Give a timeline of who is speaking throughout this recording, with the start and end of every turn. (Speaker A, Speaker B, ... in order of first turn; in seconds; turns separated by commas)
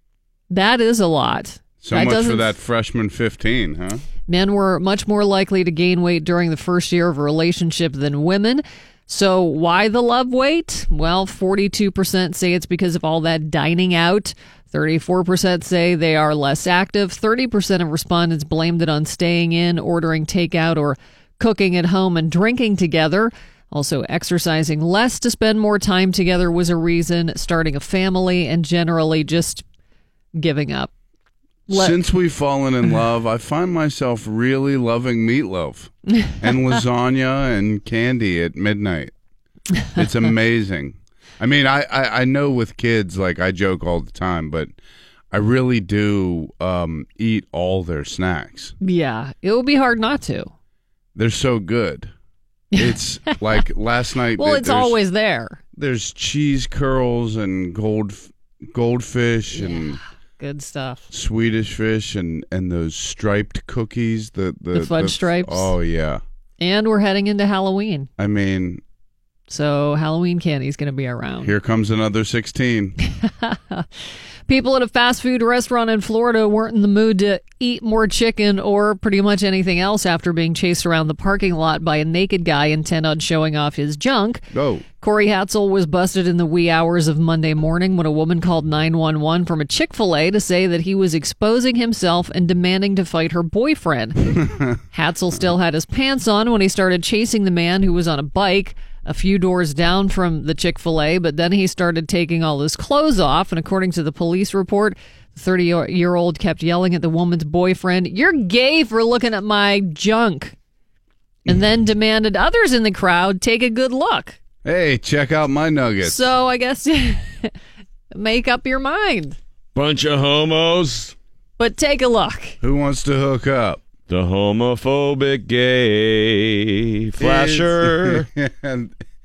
Speaker A: 0.5-2.5, Speaker B: 1.8-4.0, Speaker A: 4.3-29.6, Speaker A: 30.4-30.9, Speaker A: 31.7-32.0, Speaker B: 31.7-39.1, Speaker B: 40.0-44.7, Speaker B: 45.3-48.7, Speaker A: 48.8-50.5, Speaker B: 51.1-52.1, Speaker B: 52.8-55.0, Speaker A: 54.4-55.6, Speaker B: 55.8-60.0, Speaker A: 60.4-61.0, Speaker B: 61.1-66.2, Speaker A: 64.7-65.7, Speaker A: 66.6-68.1, Speaker B: 68.2-68.8, Speaker A: 69.5-71.5, Speaker B: 71.4-73.0, Speaker A: 73.2-73.9, Speaker A: 74.5-84.5, Speaker B: 84.5-84.8, Speaker A: 85.0-110.5, Speaker B: 94.4-94.8, Speaker A: 111.5-114.4, Speaker B: 114.7-116.2, Speaker A: 116.0-117.5, Speaker A: 118.1-119.4, Speaker C: 119.8-121.2, Speaker A: 121.6-122.6, Speaker B: 122.6-123.8, Speaker C: 124.1-128.3, Speaker B: 127.2-128.9